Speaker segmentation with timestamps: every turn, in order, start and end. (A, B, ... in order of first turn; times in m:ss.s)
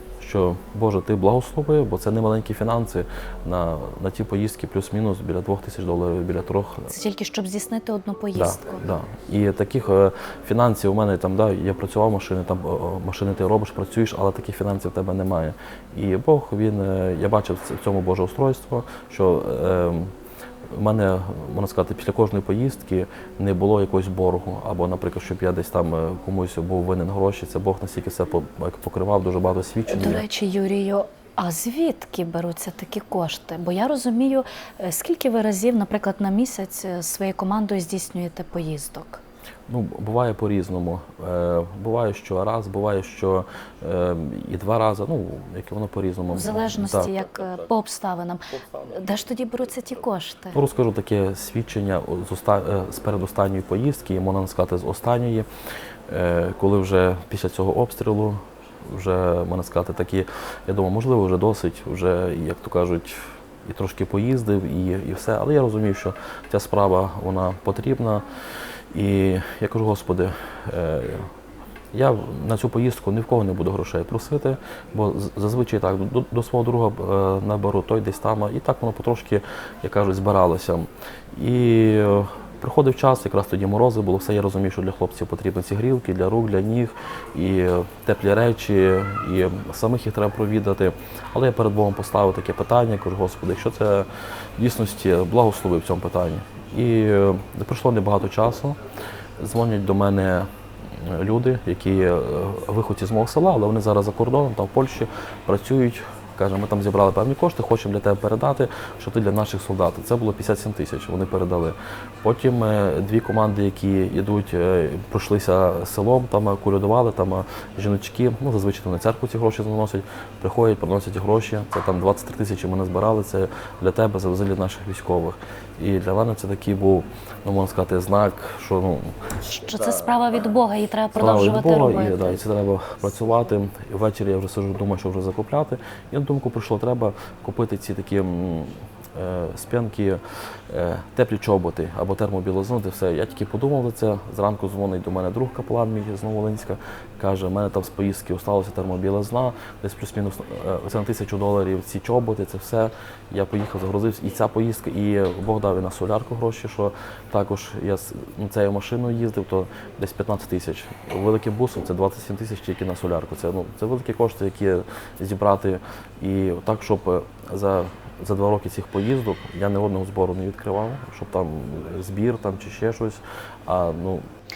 0:00.2-0:06.9 A
0:06.9-0:08.8 B
0:08.4-0:20.1 A
0:20.7-0:30.2 A
0:29.9-0:39.2 B
0:39.7-0:47.7 A
0:46.3-0:50.6 B
0:48.5-0:50.0 A
0:50.5-0:55.5 A
0:56.1-1:08.3 A
1:08.9-1:11.3 A
1:11.9-1:38.8 A
1:39.4-2:10.2 A
2:09.4-2:12.4 B
2:11.2-2:54.2 A